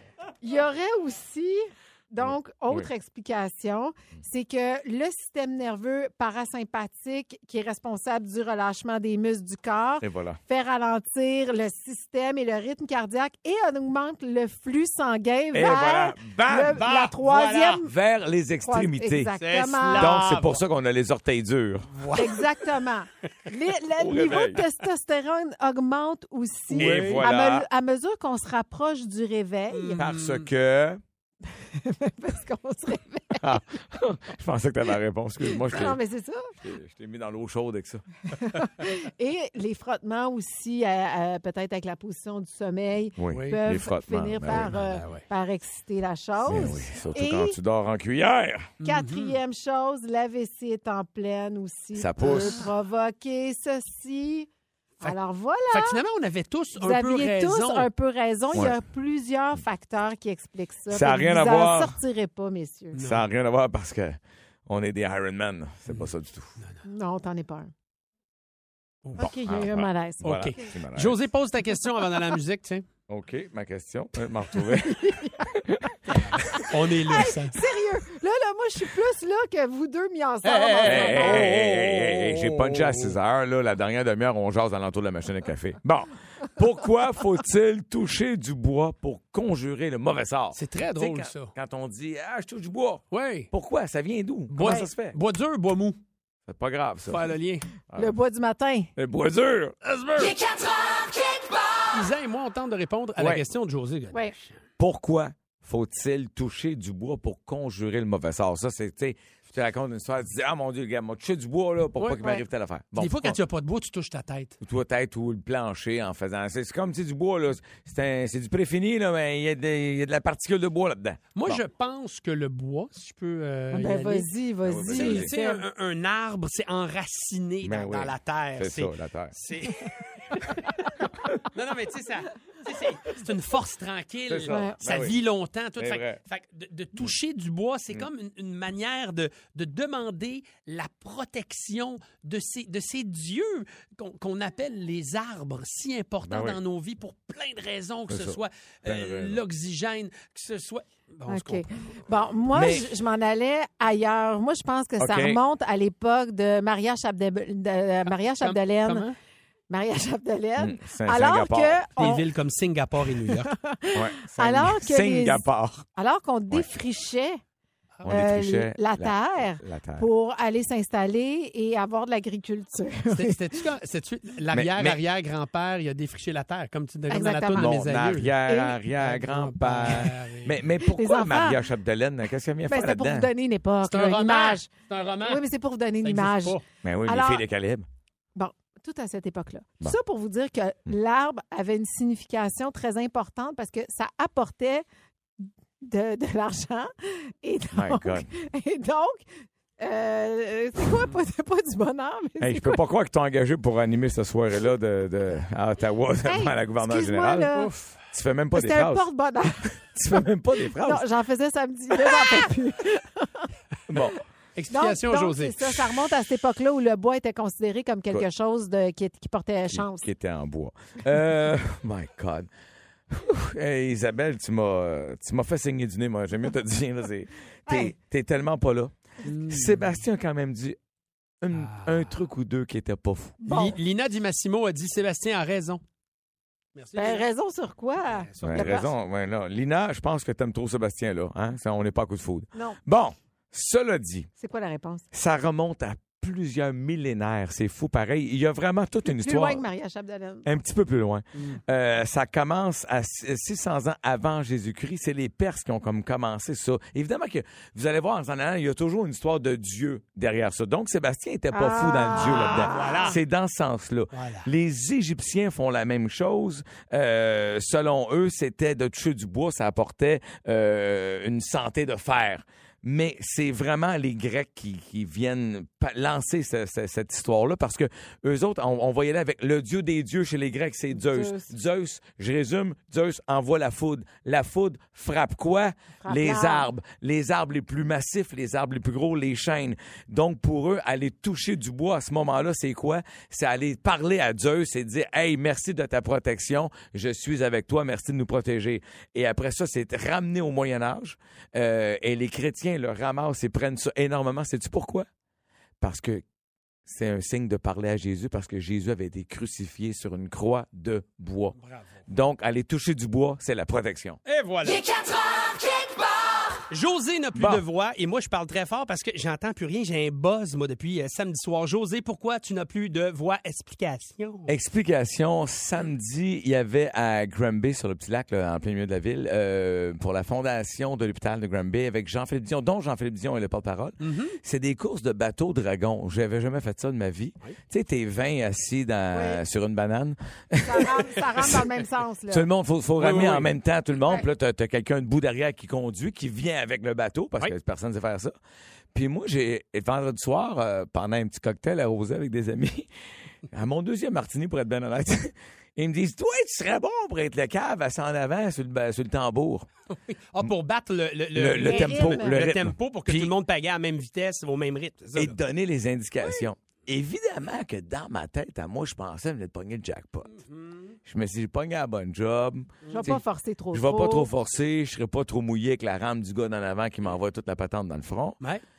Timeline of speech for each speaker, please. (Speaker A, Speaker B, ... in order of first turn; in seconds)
Speaker A: 0.4-17.9, 18.6-20.1, 22.2-30.0, 31.5-33.6, 35.5-36.5, 38.3-47.6, 48.8-54.5, 55.0-56.0, 56.8-63.0, 66.8-67.7, 69.2-70.7, 75.0-75.3, 77.1-81.5, 98.0-98.9, 123.7-125.6, 134.5-134.8, 151.3-159.1, 159.7-162.3, 163.5-165.4, 166.0-167.4, 168.1-173.4, 177.1-177.8, 178.5-178.8, 180.8-181.6, 182.7-184.7, 185.2-187.4, 188.4-194.8, 195.4-199.3, 199.8-202.8, 206.2-207.7, 208.5-209.8, 210.8-213.5, 214.7-220.1, 227.7-227.9, 233.4-233.8, 236.9-238.9, 244.4-245.1, 249.1-250.5, 261.5-263.1, 280.9-281.5, 286.0-286.7, 339.1-339.4, 340.6-342.5, 361.6-362.4, 372.9-374.3
Speaker B: 2.2-2.9, 10.0-10.4, 15.5-16.8, 17.9-19.3, 19.9-22.0, 24.0-24.6, 26.7-27.7, 30.0-31.0, 33.4-36.0, 36.6-38.0, 43.2-44.8, 46.4-48.7, 52.0-52.6, 60.9-62.0, 63.0-66.6, 69.2-71.2, 73.1-76.1, 80.8-95.2, 96.5-97.3, 97.9-98.2, 99.0-99.8, 103.2-103.4, 104.8-113.4, 114.6-121.6, 124.7-125.3, 127.6-129.3, 134.3-135.2, 135.8-136.2, 146.2-146.6, 148.1-149.4, 152.5-152.9, 155.0-155.4, 160.6-161.8, 163.9-165.9, 168.0-170.1, 174.5-175.0, 177.5-183.3, 186.8-187.9, 197.7-198.3, 202.4-207.5, 208.1-209.1, 209.7-211.1, 213.9-214.2, 219.7-222.5, 223.1-230.8, 231.4-233.4, 238.4-244.3, 245.1-249.6, 250.4-305.1, 305.8-306.2, 306.9-311.6, 312.1-314.2, 317.4-317.6, 324.5-341.6, 342.3-348.3, 348.9-352.9, 353.5-359.7, 361.3-363.3, 365.1-370.4, 371.1-373.2, 373.7-378.4
Speaker C: 16.7-17.8, 19.4-20.6, 21.9-22.7, 26.7-27.3, 29.7-30.5, 43.3-43.6, 44.5-45.2, 48.8-49.4, 52.3-52.7, 55.7-57.9, 63.0-63.2, 70.2-72.8, 76.1-77.6, 80.4-83.2, 90.5-91.5, 93.1-93.5, 94.5-96.0, 97.1-97.7, 99.8-100.6, 101.9-104.6, 112.0-112.3, 113.0-114.6, 121.3-124.3, 124.9-130.8, 131.5-152.0, 158.4-159.2, 162.0-163.6, 173.1-178.4, 179.0-180.6, 183.8-185.4, 186.0-186.6, 207.5-208.0, 214.6-216.0, 229.2-230.0, 231.5-232.2, 233.5-235.8, 236.8-237.3, 238.2-238.8, 262.2-263.2, 264.1-264.5, 311.6-311.9, 314.3-315.2, 316.7-324.5, 334.0-334.4, 343.0-343.5, 360.1-365.4, 370.4-371.0, 372.9-373.2